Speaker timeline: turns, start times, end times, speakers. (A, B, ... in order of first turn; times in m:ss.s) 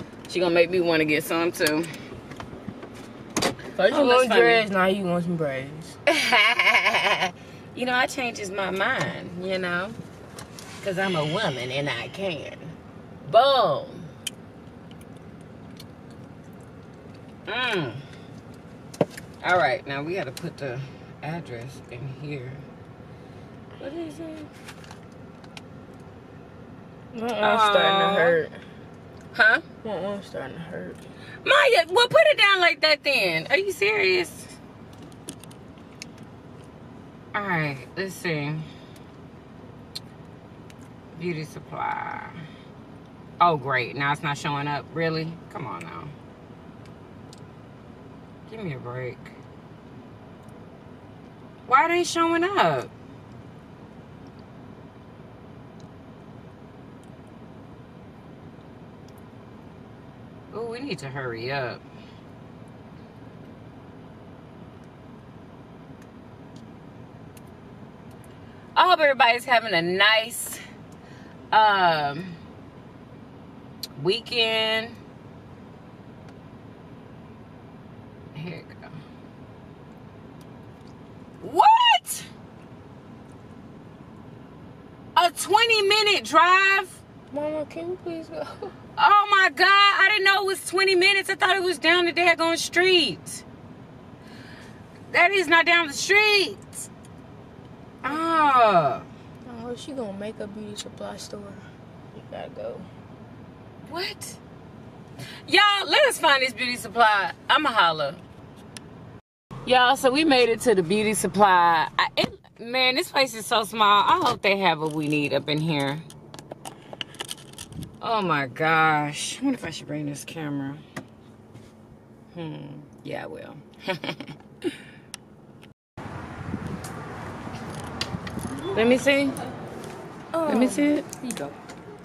0:00.3-0:01.9 A
0:03.8-0:06.0 B
0:03.9-0:04.7 A
0:06.1-0:10.0 A
0:10.8-0:14.1 A
0:17.5-0:18.0 A
0:19.4-0:22.7 A
0:23.8-0:24.5 B
0:27.1-0:28.6 B
0:27.4-0:28.4 A
0:29.3-0:29.6 A
0:29.8-0:31.1 B
0:31.4-0:34.6 A
0:37.3-0:38.7 A
0:41.1-0:42.4 A
0:43.4-0:46.1 A
0:48.5-0:49.4 A
0:51.7-0:52.9 A
1:00.5-1:01.8 A
1:08.8-1:10.6 A
1:11.5-1:12.4 A
1:14.0-1:15.0 A
1:18.3-1:19.0 A
1:21.4-1:22.3 A
1:25.2-1:27.0 A
1:27.3-1:28.7 B
1:29.0-1:33.4 A
1:35.1-1:36.9 A
1:38.0-1:39.1 A
1:39.4-1:42.9 B
1:43.8-1:44.4 A
1:45.5-1:48.2 A
1:49.6-1:56.0 A
1:58.0-2:00.8 A
2:02.3-2:04.8 A
2:08.7-2:09.4 A
2:10.3-2:11.6 B
2:10.5-2:11.1 A